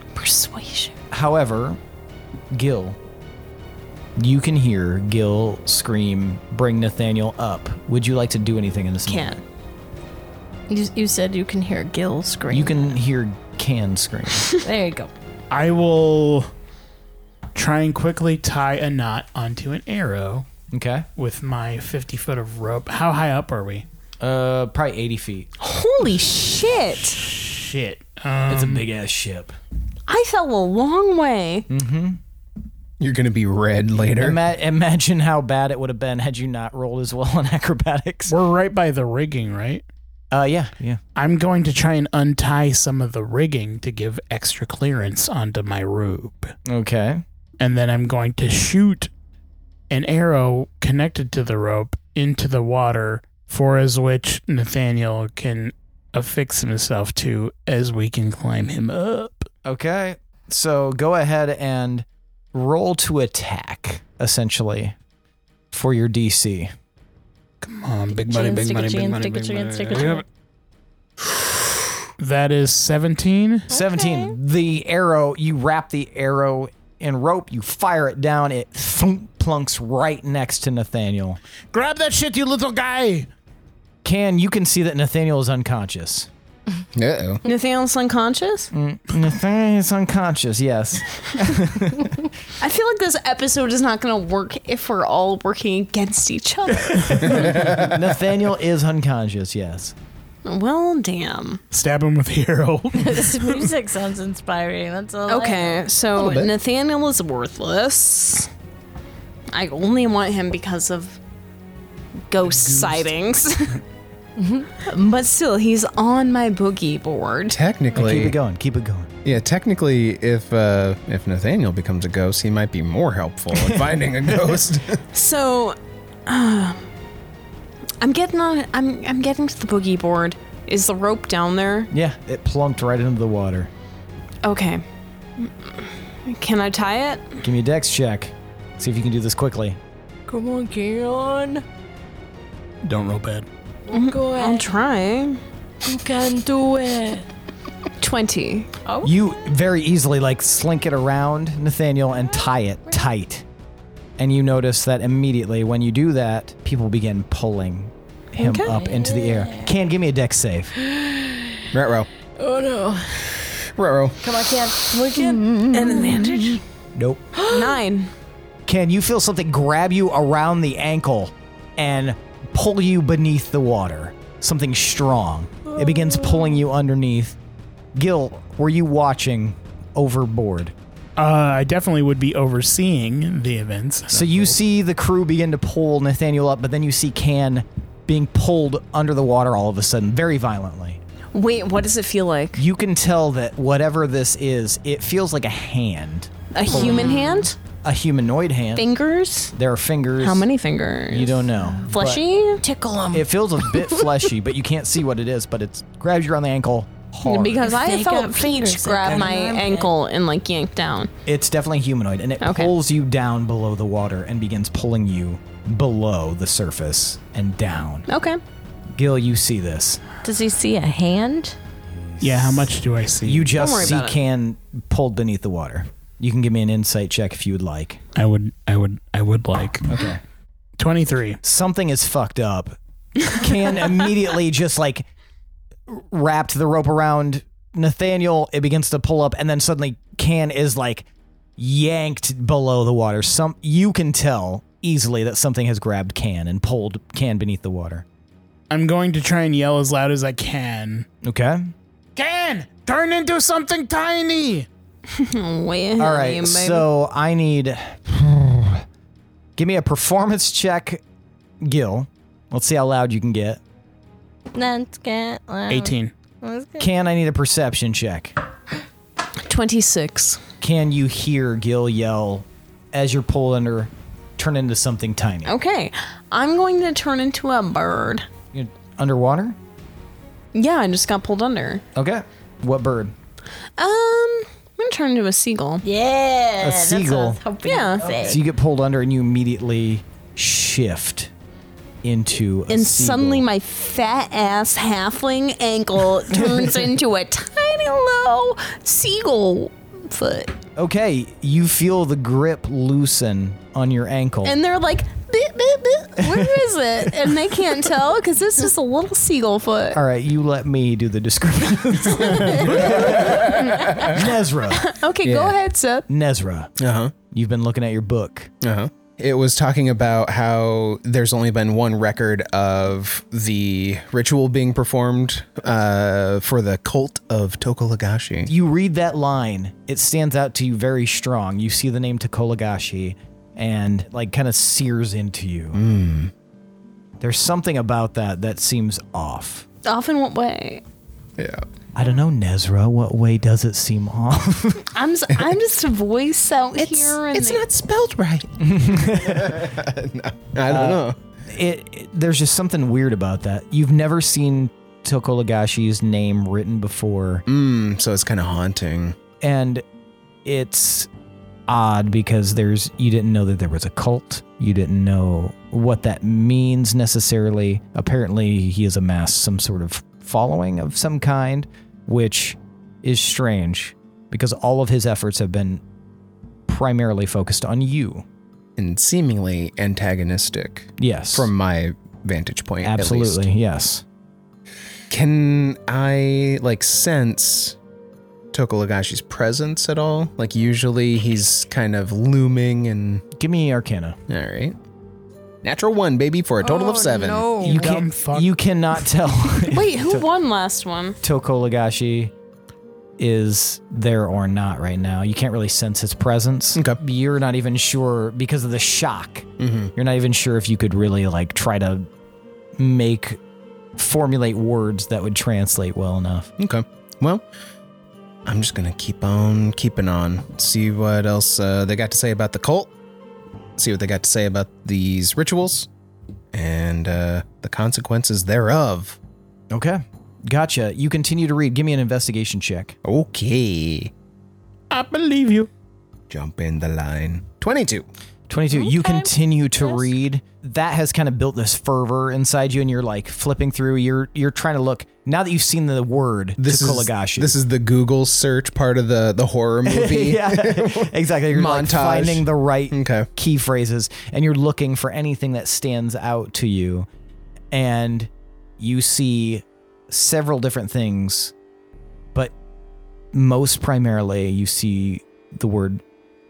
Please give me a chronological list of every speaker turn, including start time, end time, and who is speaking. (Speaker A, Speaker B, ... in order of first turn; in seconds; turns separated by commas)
Speaker A: 0.1-0.9, Speaker B: 1.1-1.8, Speaker B: 2.5-3.0, Speaker B: 4.2-9.3, Speaker A: 9.1-9.4, Speaker C: 10.7-12.9, Speaker B: 12.5-14.5, Speaker C: 14.6-15.1, Speaker D: 15.5-16.5, Speaker D: 17.6-20.5, Speaker B: 20.7-21.1, Speaker D: 21.2-23.9, Speaker B: 24.2-25.5, Speaker A: 25.6-27.2, Speaker D: 27.2-28.8, Speaker B: 28.5-29.6, Speaker A: 30.1-31.7, Speaker B: 31.7-32.2, Speaker E: 33.0-34.4, Speaker B: 34.1-38.3, Speaker D: 38.3-39.9, Speaker B: 40.3-41.0, Speaker D: 41.2-46.6, Speaker B: 46.7-47.2, Speaker D: 47.6-49.1, Speaker D: 49.9-59.5, Speaker B: 59.6-65.0, Speaker B: 65.7-66.7, Speaker D: 67.6-70.2, Speaker C: 68.2-70.2, Speaker D: 72.2-73.7, Speaker B: 73.7-81.4, Speaker C: 73.7-74.3, Speaker D: 81.7-83.3, Speaker B: 84.0-86.3, Speaker E: 86.9-87.4, Speaker A: 87.5-88.7, Speaker B: 88.7-92.3, Speaker A: 92.6-97.5, Speaker B: 97.2-99.9, Speaker E: 97.3-98.0, Speaker A: 100.5-101.6, Speaker D: 101.7-103.7, Speaker C: 103.0-105.8, Speaker A: 105.3-108.5, Speaker E: 106.2-106.5, Speaker A: 109.5-111.2, Speaker A: 112.3-113.8, Speaker D: 112.5-113.1, Speaker C: 114.4-114.7, Speaker A: 114.8-117.6, Speaker E: 117.5-118.4, Speaker B: 117.9-119.1, Speaker E: 119.2-125.0, Speaker B: 123.5-123.9, Speaker A: 125.1-126.8, Speaker A: 128.0-131.9, Speaker B: 131.9-133.7, Speaker A: 134.4-134.8, Speaker A: 135.4-137.3, Speaker B: 137.4-139.8, Speaker C: 140.3-141.6, Speaker D: 142.8-143.5, Speaker C: 143.9-144.7, Speaker A: 143.9-145.4, Speaker C: 145.8-147.3, Speaker A: 148.0-148.7, Speaker C: 148.9-149.1, Speaker B: 149.0-153.4, Speaker B: 154.2-160.7, Speaker C: 158.4-159.7, Speaker C: 160.8-161.6, Speaker E: 161.7-162.1, Speaker C: 162.4-163.3, Speaker E: 163.7-164.3, Speaker C: 164.2-165.5, Speaker E: 165.1-166.3, Speaker A: 165.7-166.6, Speaker B: 166.9-167.2, Speaker C: 167.4-167.8, Speaker A: 167.5-168.1, Speaker B: 168.7-177.4, Speaker C: 176.1-176.5, Speaker B: 177.9-180.7, Speaker D: 181.2-184.6, Speaker B: 184.1-191.0, Speaker A: 191.3-192.6, Speaker B: 192.6-198.9, Speaker A: 196.5-197.6, Speaker C: 196.7-197.3, Speaker A: 198.8-199.5, Speaker B: 199.5-200.5, Speaker A: 200.2-202.6, Speaker B: 201.1-202.2, Speaker C: 202.6-203.8, Speaker B: 203.1-207.7, Speaker A: 207.2-211.1, Speaker C: 207.6-209.9, Speaker B: 211.3-218.1, Speaker A: 212.4-212.7, Speaker A: 218.1-218.4, Speaker B: 219.0-220.0, Speaker C: 220.2-221.6, Speaker D: 222.2-223.6, Speaker B: 223.2-228.0, Speaker A: 223.6-224.2, Speaker D: 228.2-230.1, Speaker B: 229.9-230.2, Speaker D: 230.8-231.4, Speaker B: 231.4-235.1, Speaker B: 235.9-241.1, Speaker B: 241.6-248.1, Speaker D: 248.7-251.1, Speaker B: 251.2-251.7, Speaker D: 252.2-254.7, Speaker A: 255.1-256.9, Speaker B: 256.0-258.8, Speaker B: 259.6-261.0, Speaker B: 261.6-263.6, Speaker C: 264.5-266.9, Speaker D: 265.7-266.1, Speaker B: 266.8-268.3, Speaker A: 269.4-270.4, Speaker B: 270.6-275.5, Speaker A: 275.4-278.3, Speaker B: 278.5-279.6, Speaker A: 280.5-281.8, Speaker B: 281.9-283.1, Speaker A: 283.8-285.8, Speaker C: 285.8-288.4, Speaker B: 286.6-287.4, Speaker A: 287.6-288.3, Speaker B: 288.1-291.3, Speaker B: 292.0-293.4, Speaker A: 292.7-300.6, Speaker B: 296.3-296.8, Speaker B: 300.8-304.6, Speaker A: 304.4-310.0, Speaker B: 306.2-307.3, Speaker B: 309.9-314.9, Speaker E: 312.6-314.2, Speaker A: 314.7-316.1, Speaker E: 315.2-315.6, Speaker B: 316.1-316.7, Speaker E: 316.8-317.1, Speaker B: 317.3-318.5, Speaker E: 318.6-328.5, Speaker B: 328.5-335.8, Speaker E: 335.7-336.3, Speaker B: 337.2-339.7, Speaker A: 339.9-340.8, Speaker E: 341.4-341.6, Speaker B: 341.9-344.9, Speaker A: 344.9-347.6, Speaker E: 346.8-351.2, Speaker B: 348.6-349.7, Speaker B: 350.7-357.4, Speaker E: 357.5-359.2, Speaker B: 359.4-359.8, Speaker B: 360.4-361.1, Speaker B: 361.7-375.8, Speaker B: 376.7-378.2, Speaker E: 378.8-383.5, Speaker B: 381.0-381.5, Speaker B: 382.8-384.0, Speaker E: 385.1-387.8, Speaker E: 388.5-393.2, Speaker B: 393.4-394.2, Speaker E: 394.3-394.8, Speaker E: 395.6-397.6, Speaker C: 396.6-398.0, Speaker B: 397.6-400.3, Speaker D: 397.6-398.5, Speaker A: 399.6-401.2, Speaker B: 401.2-402.3, Speaker B: 403.2-412.1, Speaker E: 409.6-409.9, Speaker B: 412.8-413.4, Speaker B: 414.0-416.5, Speaker E: 416.6-417.4, Speaker E: 418.5-422.9, Speaker E: 423.8-425.9, Speaker E: 426.5-429.2, Speaker B: 429.7-433.0, Speaker E: 433.0-434.1, Speaker D: 434.9-435.7, Speaker E: 436.3-438.1, Speaker B: 438.5-447.6, Speaker C: 438.7-440.1, Speaker E: 446.6-453.3, Speaker B: 449.9-457.1, Speaker B: 457.7-461.5, Speaker B: 463.3-466.0